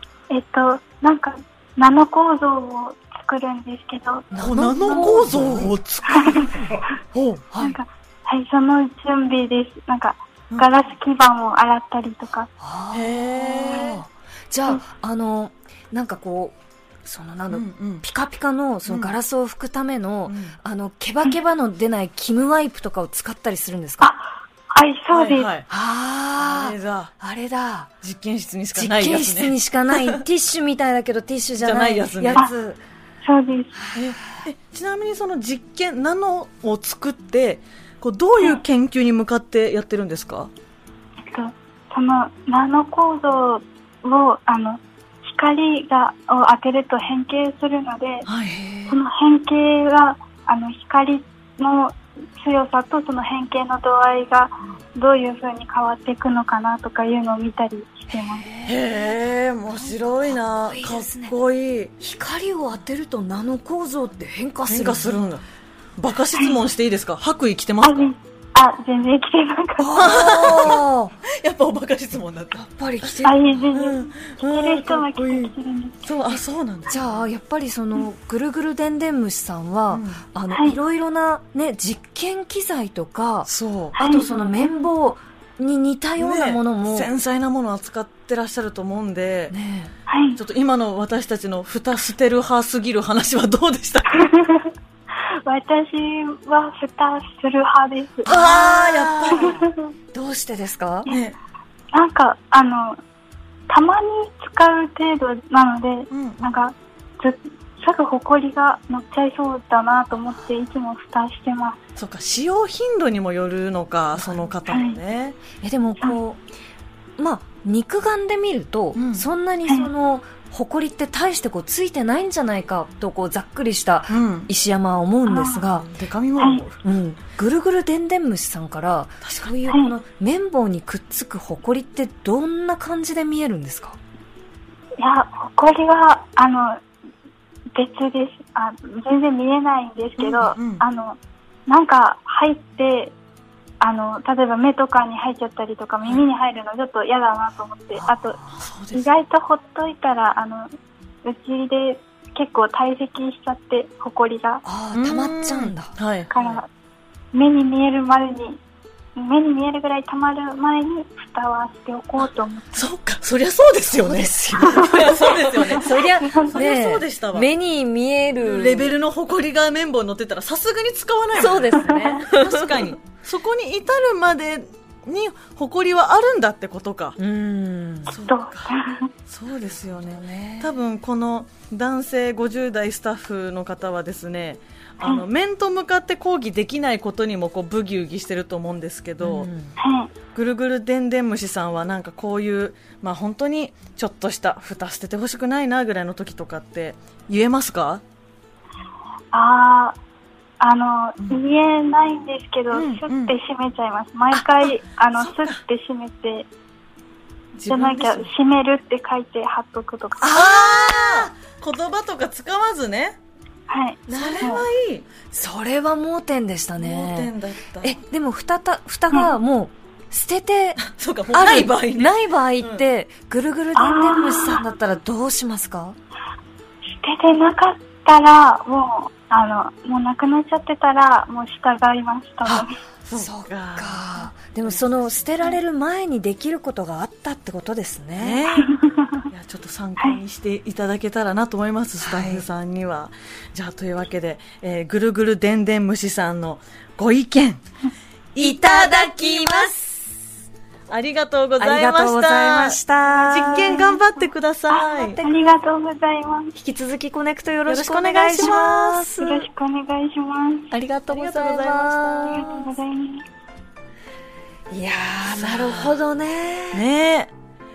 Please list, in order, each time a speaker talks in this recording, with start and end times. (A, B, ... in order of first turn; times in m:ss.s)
0:00.3-0:04.3 A
0:04.3-0:05.7 B
0:04.4-0:07.4 C
0:06.1-0:06.8 A
0:07.5-0:07.8 B
0:07.6-0:12.5 A
0:12.6-0:24.1 B
0:12.9-0:14.0 C
0:17.5-0:18.0 C
0:18.8-0:19.1 C
0:20.2-0:20.6 C
0:24.0-0:25.5 A
0:25.1-0:25.7 C
0:25.7-0:27.9 B
0:26.4-0:27.1 C
0:28.0-0:30.2 C
0:28.7-0:32.8 B
0:31.6-0:32.4 C
0:33.2-0:33.8 A
0:33.8-0:34.4 B
0:33.9-0:40.5 C
0:41.3-0:48.3 A
0:48.2-0:48.6 C
0:48.4-0:49.0 B
0:48.9-0:58.5 A
0:58.2-0:59.0 B
0:58.6-1:01.9 C
0:59.7-1:01.3 B
1:02.0-1:05.2 B
1:04.7-1:05.4 C
1:06.0-1:08.1 C
1:07.8-1:10.3 A
1:09.8-1:11.1 B
1:10.0-1:15.5 C
1:12.6-1:13.4 B
1:13.2-1:16.0 A
1:16.0-1:17.1 C
1:16.9-1:27.1 B
1:19.9-1:20.2 C
1:20.5-1:20.8 A
1:23.5-1:24.1 C
1:24.0-1:24.3 A
1:26.2-1:29.5 C
1:29.5-1:29.9 B
1:30.1-1:30.4 A
1:30.4-1:34.2 C
1:34.1-1:38.3 A
1:38.2-1:39.6 B
1:38.3-1:39.6 C
1:39.3-1:39.8 A
1:40.1-1:41.1 B
1:41.1-1:41.3 C
1:41.9-1:43.0 A
1:43.7-1:51.8 A
1:46.1-1:46.4 C
1:52.0-1:55.4 C
1:54.7-1:55.0 A
1:55.6-1:56.4 B
1:57.2-2:05.9 B
1:58.9-1:59.2 C
2:04.1-2:04.5 C
2:05.3-2:05.6 A
2:05.8-2:06.8 C
2:06.4-2:06.6 A
2:06.8-2:14.0 B
2:15.0-2:16.8 A
2:17.7-2:23.1 A
2:20.2-2:20.8 C
2:23.8-2:28.4 A
2:28.0-2:28.6 B
2:28.6-2:29.0 C
2:28.9-2:30.7 A
2:31.2-2:34.6 A
2:34.6-2:36.5 B
2:34.9-2:36.3 C
2:36.3-2:36.7 A
2:37.3-2:38.6 A
2:39.2-2:42.8 A
2:42.7-2:46.0 C
2:43.9-2:48.9 B
2:44.6-2:46.5 A
2:46.5-2:47.5 C
2:48.4-2:57.2 C
2:51.3-2:52.9 B
2:51.8-2:52.2 A
2:57.2-2:58.1 B
2:58.1-2:58.7 C
2:58.2-2:59.1 A
2:59.3-3:09.5 C
3:00.3-3:00.7 B
3:09.2-3:09.7 B
3:09.8-3:10.1 A
3:10.3-3:18.0 C
3:19.3-3:20.0 A
3:20.6-3:26.5 A
3:22.7-3:23.3 C
3:24.3-3:24.7 C
3:25.2-3:25.6 C
3:27.5-3:28.3 C
3:27.7-3:30.3 A
3:30.2-3:31.3 B
3:30.3-3:33.2 C
3:33.7-3:34.6 A
3:34.1-3:34.6 B
3:34.1-3:35.1 C
3:35.3-3:37.3 B
3:36.8-3:38.0 C
3:37.8-3:40.8 B
3:40.8-3:42.8 C
3:41.3-3:46.0 B
3:43.8-3:44.6 A
3:47.0-3:52.7 A
3:52.4-3:58.4 B
3:53.1-3:55.5 C
3:58.2-3:58.7 C
3:58.6-3:59.2 A
3:59.3-4:07.6 C
4:02.0-4:02.4 B
4:08.3-4:09.7 C
4:08.4-4:10.2 B
4:10.9-4:15.2 C
4:11.6-4:14.0 B
4:14.7-4:15.4 B
4:14.7-4:16.5 A
4:16.5-4:19.5 B
4:17.7-4:19.0 C
4:19.2-4:20.7 A
4:20.7-4:22.8 B
4:21.1-4:22.3 C
4:22.2-4:23.2 A
4:24.7-4:26.8 B
4:25.3-4:26.0 C
4:26.7-4:27.3 C